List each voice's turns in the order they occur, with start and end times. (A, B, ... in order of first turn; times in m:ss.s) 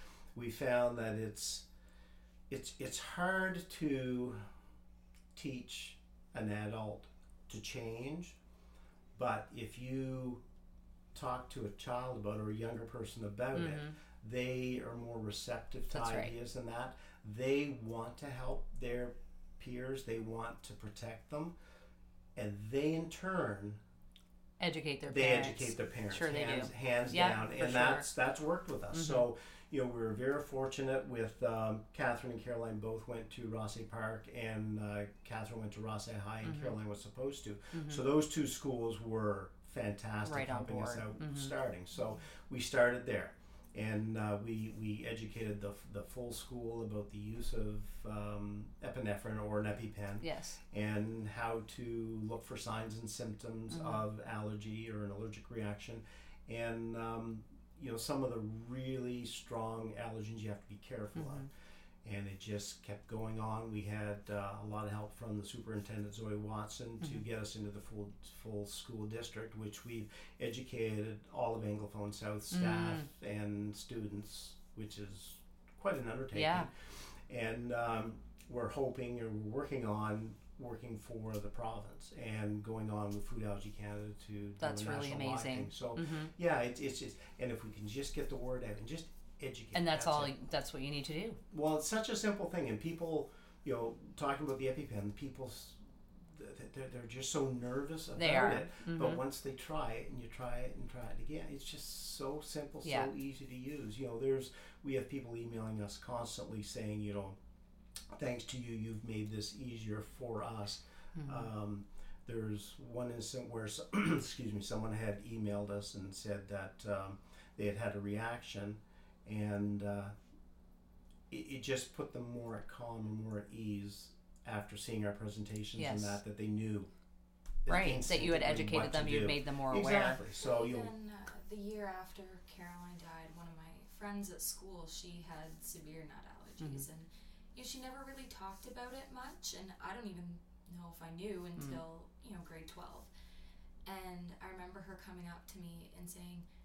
0:00.3-0:01.7 A
0:02.5-0:04.4 A
0:05.3-0:08.4 A
0:09.1-0:10.4 A
0:11.1-0:21.6 A
0:13.5-0:13.9 B
0:15.9-0:16.3 B
0:22.4-0:23.8 A
0:24.6-0:28.0 B
0:25.1-1:01.5 A
0:28.9-0:29.2 B
0:36.4-0:36.8 B
0:37.7-0:38.0 B
0:40.2-0:41.5 B
0:50.2-0:50.6 B
0:53.7-0:54.0 B
1:01.2-1:01.5 B
1:02.0-1:30.3 A
1:12.5-1:13.1 B
1:16.3-1:16.7 B
1:24.6-1:26.3 B
1:29.7-1:31.4 B
1:31.5-1:47.4 A
1:38.2-1:39.2 B
1:42.8-1:43.1 B
1:48.1-2:00.1 A
1:51.2-1:51.5 B
2:01.3-2:06.9 A
2:05.8-2:06.2 B
2:07.6-2:10.9 A
2:07.6-2:10.2 B
2:10.4-2:23.1 C
2:16.6-2:16.8 B
2:23.8-2:26.4 C